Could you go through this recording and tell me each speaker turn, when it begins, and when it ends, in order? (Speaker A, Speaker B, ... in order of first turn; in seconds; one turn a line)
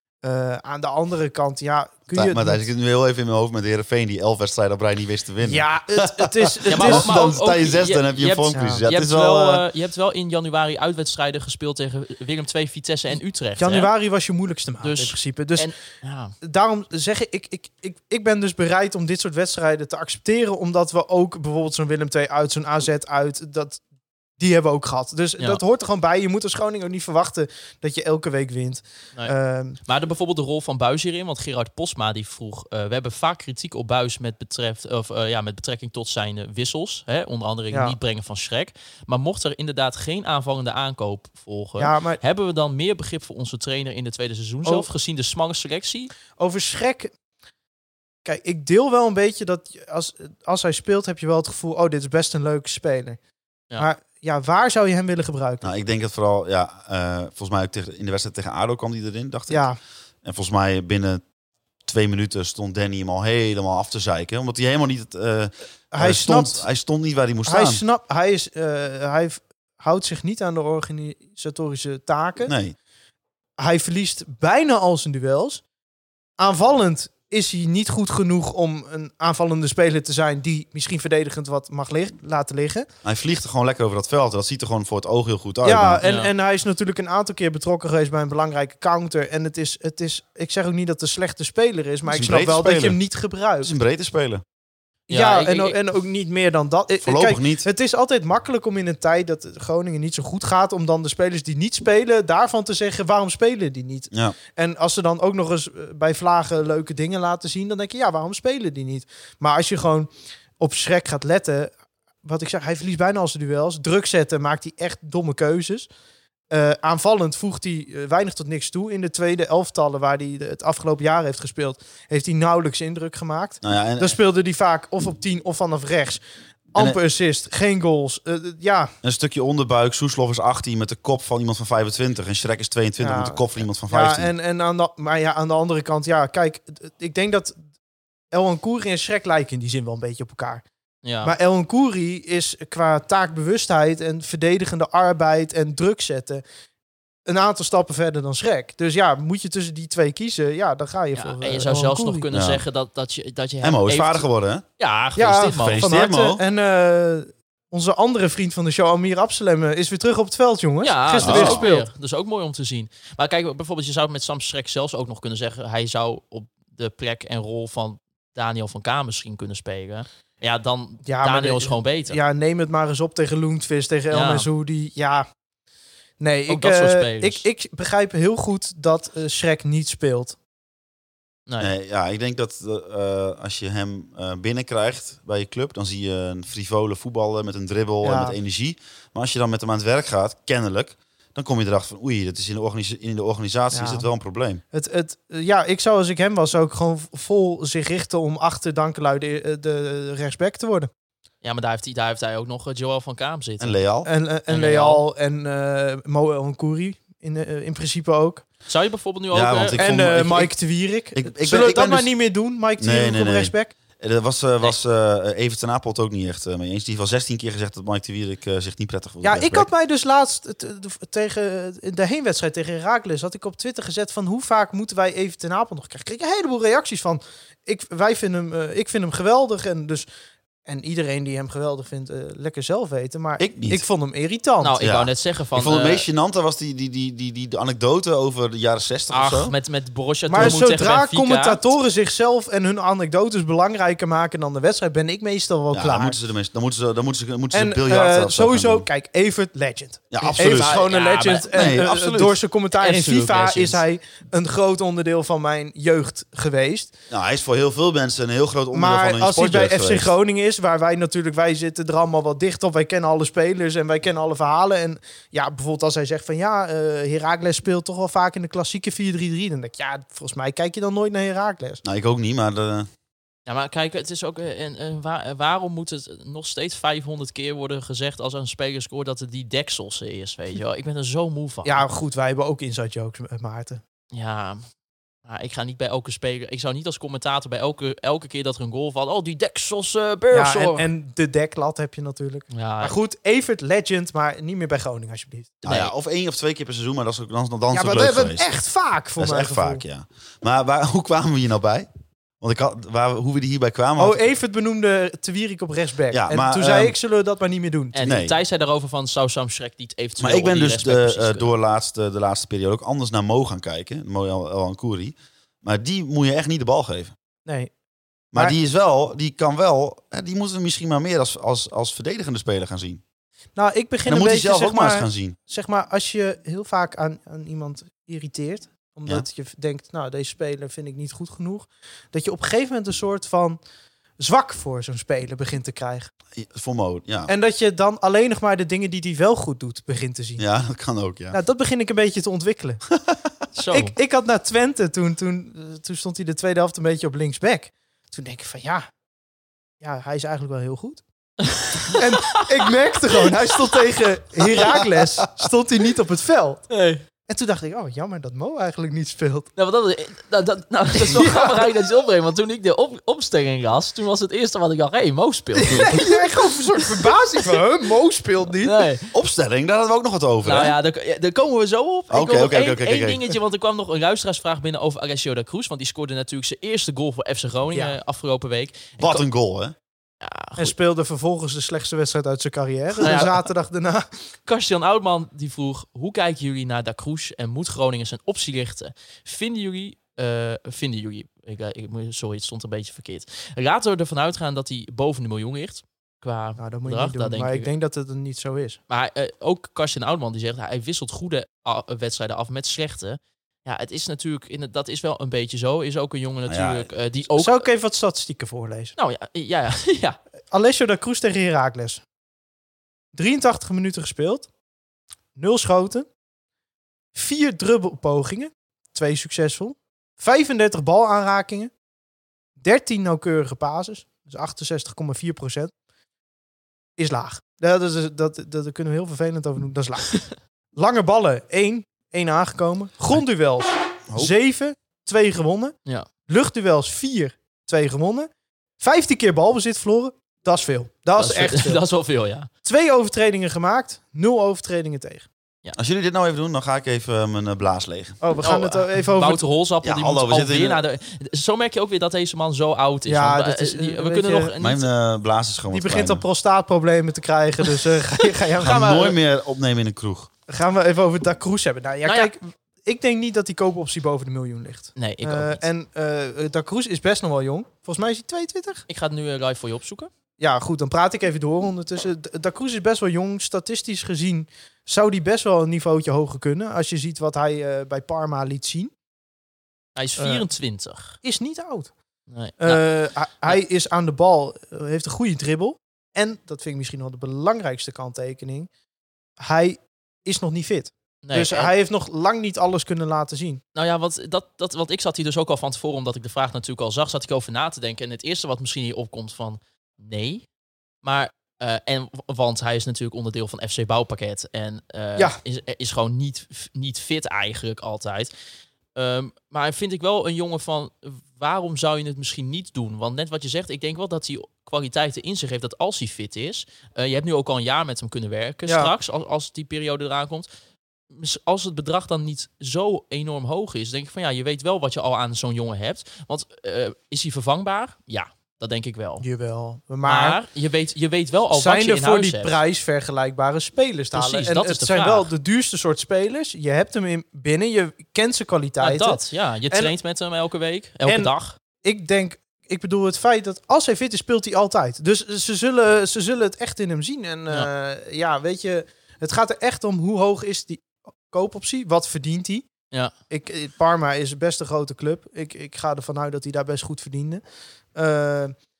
Speaker A: 0.2-2.6
Speaker B: 2.1-9.6
Speaker A: 5.4-7.2
Speaker C: 6.7-13.9
Speaker A: 8.5-8.8
Speaker A: 13.6-15.7
Speaker C: 14.8-16.3
Speaker A: 16.4-23.8
Speaker A: 24.4-29.8
Speaker C: 29.8-46.1
Speaker A: 37.7-38.0
Speaker A: 41.8-42.2
Speaker A: 46.4-47.1
Speaker A: 48.2-53.2
Speaker A: 53.8-55.7
Speaker B: 55.6-59.7
Speaker A: 59.5-59.8
Speaker B: 60.2-61.2
Speaker B: 61.9-67.8
Speaker A: 65.9-66.6
Speaker A: 67.4-72.5
Speaker B: 72.5-72.8
Speaker A: 73.6-75.6
Speaker A: 76.4-82.9
Speaker B: 83.0-86.0
Speaker A: 85.6-93.7
Speaker C: 86.0-86.3
Speaker B: 92.1-93.0
Speaker B: 93.6-94.4
Speaker C: 95.1-95.8
Speaker A: 95.1-115.9
Speaker B: 97.0-97.7
Speaker A: 116.5-128.9
Speaker B: 123.6-124.2
Speaker B: 129.0-134.3
Speaker A: 133.0-137.6
Speaker A: 138.3-140.6
Speaker C: 141.0-141.3
Speaker A: 141.2-146.4
Speaker A: 147.2-152.3
Speaker C: 151.2-154.2
Speaker B: 152.3-152.6
Speaker B: 153.6-154.6
Speaker C: 154.8-155.9
Speaker A: 155.2-161.9
Speaker B: 155.6-156.4
Speaker C: 160.8-172.2
Speaker B: 161.2-161.6
Speaker A: 171.0-175.2
Speaker C: 174.1-174.4
Speaker A: 176.2-180.3
Speaker C: 176.5-177.4
Speaker B: 181.6-194.6
Speaker A: 188.0-188.3
Speaker A: 193.7-194.1
Speaker A: 194.7-200.9
Speaker C: 201.4-203.8
Speaker B: 203.6-204.1
Speaker A: 204.0-208.4
Speaker C: 204.5-205.0
Speaker C: 208.7-209.9
Speaker B: 209.3-210.6
Speaker A: 209.8-213.7
Speaker B: 211.1-212.1
Speaker B: 212.8-219.7
Speaker A: 219.2-230.1
Speaker A: 230.6-234.8
Speaker B: 233.4-233.8
Speaker C: 234.6-236.1
Speaker B: 234.8-239.5
Speaker C: 239.1-241.6
Speaker A: 240.3-246.2
Speaker B: 240.3-240.6
Speaker B: 245.7-248.9
Speaker A: 247.5-256.9
Speaker B: 250.1-250.8
Speaker C: 250.2-251.5
Speaker B: 251.5-252.4
Speaker C: 252.7-253.8
Speaker B: 257.1-260.1
Speaker A: 258.7-271.8
Speaker B: 271.8-272.9
Speaker C: 273.5-281.8
Speaker A: 281.6-283.8
Speaker C: 284.1-284.6
Speaker C: 285.2-290.9
Speaker A: 290.3-295.6
Speaker C: 292.5-292.9
Speaker C: 295.6-295.9
Speaker B: 295.6-298.4
Speaker A: 297.7-299.8
Speaker B: 299.2-301.9
Speaker B: 302.4-304.2
Speaker A: 304.0-308.0
Speaker B: 306.1-306.9
Speaker C: 307.9-311.5
Speaker B: 308.0-308.4
Speaker B: 310.2-317.1
Speaker A: 317.4-317.7
Speaker B: 318.3-323.0
Speaker A: 323.6-333.6
Speaker B: 324.1-325.4
Speaker A: 334.2-336.1
Speaker B: 336.4-337.3
Speaker A: 337.3-340.4
Speaker B: 340.4-341.4
Speaker A: 341.3-342.8
Speaker C: 343.5-343.9
Speaker A: 343.7-348.9
Speaker A: 349.8-351.0
Speaker C: 351.4-352.4
Speaker A: 351.9-356.7
Speaker C: 354.4-354.9
Speaker C: 356.7-357.0
Speaker A: 357.3-359.5
Speaker C: 359.6-366.3
Speaker A: 361.0-361.6
Speaker A: 365.5-368.9
Speaker C: 368.6-369.1
Speaker B: 369.1-370.7
Speaker C: 370.4-379.2
Speaker B: 372.1-373.2
Speaker B: 379.0-379.7
Speaker C: 380.2-380.7
Speaker A: 380.6-384.1
Speaker C: 383.0-383.4
Speaker C: 384.4-397.7
Speaker A: 396.6-398.8
Speaker C: 398.9-407.6
Speaker B: 406.5-406.9
Speaker A: 407.4-408.9
Speaker C: 409.0-410.2
Speaker A: 410.5-412.0
Speaker A: 413.1-414.5
Speaker A: 415.4-416.1
Speaker A: 417.1-421.7
Speaker A: 422.6-425.7
Speaker A: 427.0-430.2
Speaker A: 430.8-435.7
Speaker A: 436.2-441.8
Speaker C: 441.2-442.5
Speaker A: 442.6-445.3
Speaker B: 445.7-448.2
Speaker A: 448.2-449.4
Speaker C: 448.4-454.9
Speaker B: 449.8-450.8
Speaker A: 453.1-454.5
Speaker B: 454.6-456.2
Speaker A: 455.7-458.9
Speaker C: 458.4-459.1
Speaker B: 458.6-460.3
Speaker A: 460.5-468.8
Speaker C: 462.1-462.3
Speaker C: 465.0-465.6
Speaker C: 468.9-470.1
Speaker A: 470.4-478.9
Speaker C: 479.9-481.2
Speaker A: 480.2-480.5
Speaker A: 481.2-481.9
Speaker C: 482.3-482.8
Speaker A: 482.6-488.7
Speaker A: 489.4-493.6
Speaker C: 491.2-491.7
Speaker C: 493.8-500.4
Speaker C: 501.0-508.3
Speaker C: 508.9-520.5
Speaker A: 518.7-518.9
Speaker C: 521.1-529.2
Speaker A: 529.2-530.4
Speaker C: 530.0-532.5
Speaker A: 531.5-539.9
Speaker C: 534.1-535.3
Speaker C: 538.8-541.5
Speaker A: 541.0-552.7
Speaker A: 553.3-557.4
Speaker A: 557.9-558.5